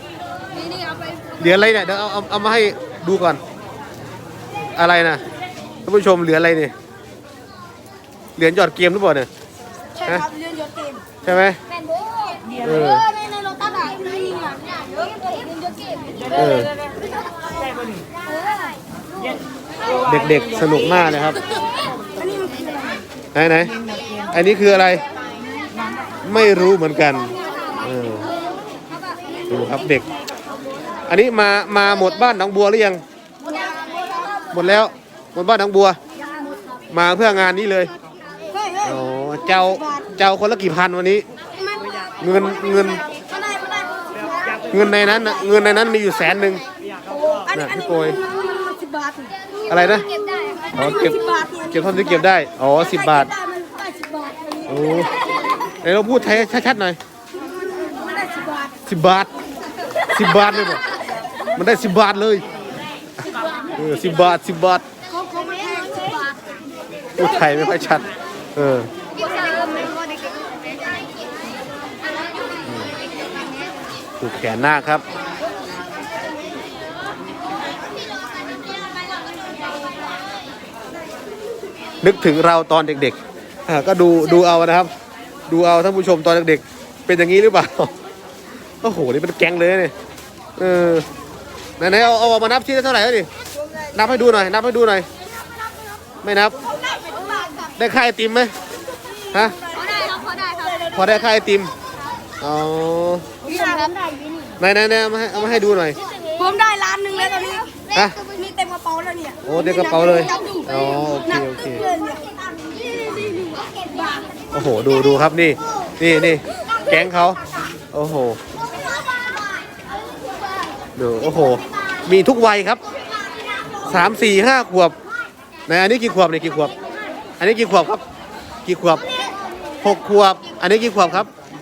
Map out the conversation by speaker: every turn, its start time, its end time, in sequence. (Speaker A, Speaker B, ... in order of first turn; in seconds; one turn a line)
Speaker A: 0.6-1.2
Speaker B: 1.4-3.4
Speaker B: 4.8-5.2
Speaker B: 5.8-6.7
Speaker B: 8.4-9.3
Speaker A: 10.0-11.0
Speaker B: 11.2-11.6
Speaker A: 11.9-12.4
Speaker B: 12.6-13.1
Speaker A: 13.1-16.2
Speaker B: 16.3-16.7
Speaker A: 18.3-18.7
Speaker B: 20.0-21.4
Speaker A: 22.2-23.0
Speaker B: 23.4-23.7
Speaker B: 24.3-25.0
Speaker B: 26.2-28.3
Speaker B: 29.5-30.1
Speaker B: 31.1-33.0
Speaker A: 33.5-34.5
Speaker B: 34.5-36.0
Speaker B: 36.9-37.9
Speaker A: 38.5-38.8
Speaker B: 38.8-41.2
Speaker A: 41.6-42.1
Speaker B: 42.2-43.0
Speaker A: 43.1-44.7
Speaker B: 44.7-46.6
Speaker A: 47.1-49.6
Speaker B: 47.5-48.2
Speaker B: 49.7-50.1
Speaker A: 50.2-51.8
Speaker B: 50.7-53.3
Speaker A: 53.4-54.7
Speaker B: 54.7-55.1
Speaker B: 55.8-57.0
Speaker A: 57.7-58.8
Speaker B: 58.9-59.3
Speaker B: 60.1-60.8
Speaker B: 61.6-62.4
Speaker B: 63.7-64.8
Speaker A: 65.1-66.3
Speaker B: 67.2-68.9
Speaker A: 69.2-70.3
Speaker B: 72.6-72.9
Speaker B: 74.2-75.0
Speaker B: 82.0-84.9
Speaker B: 85.5-87.9
Speaker B: 88.8-89.9
Speaker B: 90.6-91.1
Speaker B: 91.8-93.3
Speaker B: 93.9-95.1
Speaker B: 96.2-96.6
Speaker A: 97.2-97.5
Speaker B: 97.8-98.5
Speaker B: 99.3-99.6
Speaker A: 99.7-100.9
Speaker B: 100.9-101.7
Speaker B: 102.4-103.3
Speaker A: 103.5-104.4
Speaker B: 104.6-106.0
Speaker A: 106.2-109.6
Speaker B: 107.9-108.2
Speaker B: 109.4-111.9
Speaker A: 110.3-110.6
Speaker A: 111.8-114.3
Speaker B: 114.5-117.4
Speaker B: 117.9-118.4
Speaker B: 121.0-122.8
Speaker B: 123.8-125.0
Speaker B: 125.7-126.7
Speaker B: 127.4-128.0
Speaker B: 128.7-129.1
Speaker B: 129.8-131.3